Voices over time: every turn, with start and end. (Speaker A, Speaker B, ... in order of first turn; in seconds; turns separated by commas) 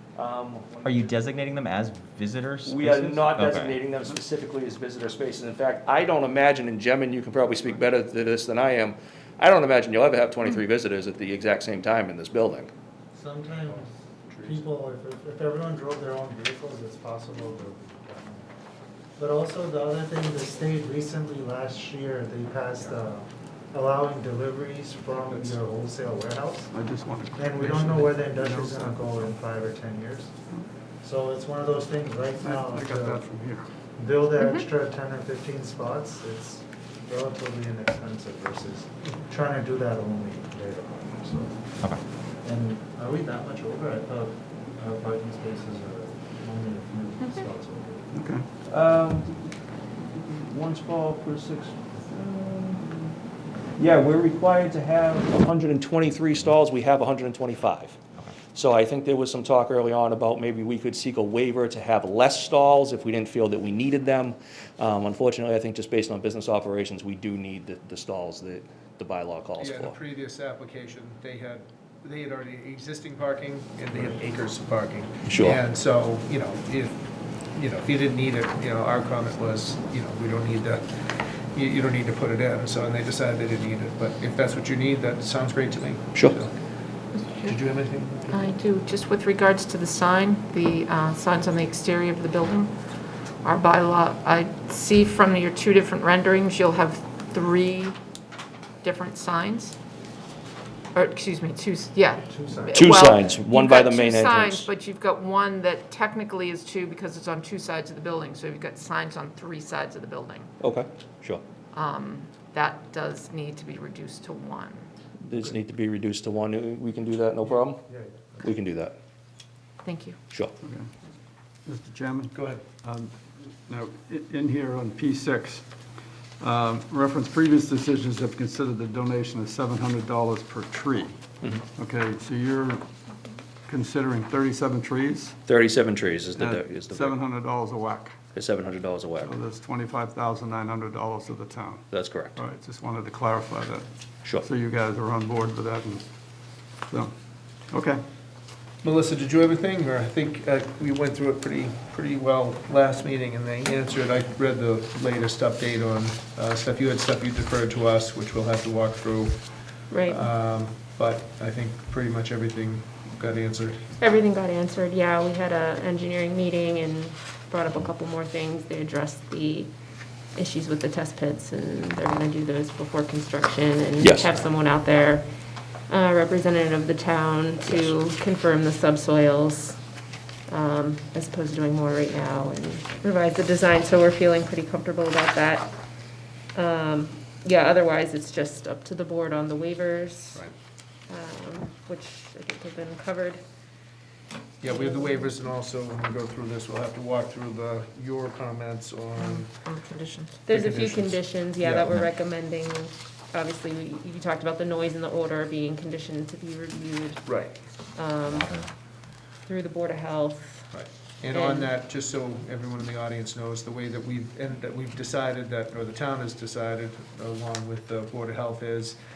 Speaker A: 0.1-1.1, Speaker B: 0.8-3.8, Speaker A: 2.6-12.7, Speaker C: 13.1-18.5, Speaker C: 19.2-26.7, Speaker D: 26.7-29.0, Speaker C: 27.3-30.3, Speaker C: 31.0-33.2, Speaker D: 32.4-33.6, Speaker C: 34.0-41.7, Speaker C: 42.4-48.1, Speaker D: 48.1-48.5, Speaker A: 48.7-49.5, Speaker A: 50.1-52.8, Speaker A: 53.8-58.0, Speaker A: 58.5-70.0, Speaker E: 69.6-86.5, Speaker A: 75.2-75.6, Speaker F: 87.1-87.6, Speaker E: 87.4-88.5, Speaker F: 88.3-92.7, Speaker F: 93.4-98.0, Speaker F: 98.8-99.8, Speaker F: 100.9-110.5, Speaker C: 102.3-102.8, Speaker A: 102.7-104.7, Speaker A: 110.6-111.4, Speaker F: 111.7-114.9, Speaker A: 115.2-117.8, Speaker C: 117.8-118.5, Speaker A: 118.4-118.9, Speaker F: 119.8-120.2, Speaker D: 120.6-120.9, Speaker D: 121.6-125.7, Speaker E: 122.3-122.6, Speaker D: 126.4-131.2, Speaker D: 131.8-132.8, Speaker D: 133.7-135.4, Speaker A: 135.5-137.2, Speaker D: 136.3-138.1, Speaker A: 138.3-139.3, Speaker D: 139.2-141.8, Speaker A: 141.9-142.4, Speaker D: 142.3-143.9, Speaker D: 144.4-146.0, Speaker D: 147.7-148.0, Speaker E: 148.8-159.4, Speaker G: 159.9-160.3, Speaker E: 160.1-163.8, Speaker G: 164.0-169.7, Speaker G: 170.3-175.2, Speaker A: 174.0-174.3, Speaker G: 175.9-179.8, Speaker G: 180.5-185.7, Speaker G: 186.5-190.5, Speaker G: 191.1-193.4, Speaker G: 194.6-195.4, Speaker E: 194.6-199.5, Speaker F: 199.2-200.5, Speaker G: 200.4-207.3, Speaker E: 200.5-201.9, Speaker E: 207.2-207.6, Speaker G: 207.9-208.5, Speaker B: 208.2-208.7, Speaker G: 209.4-210.7, Speaker E: 210.7-219.0, Speaker G: 211.3-211.7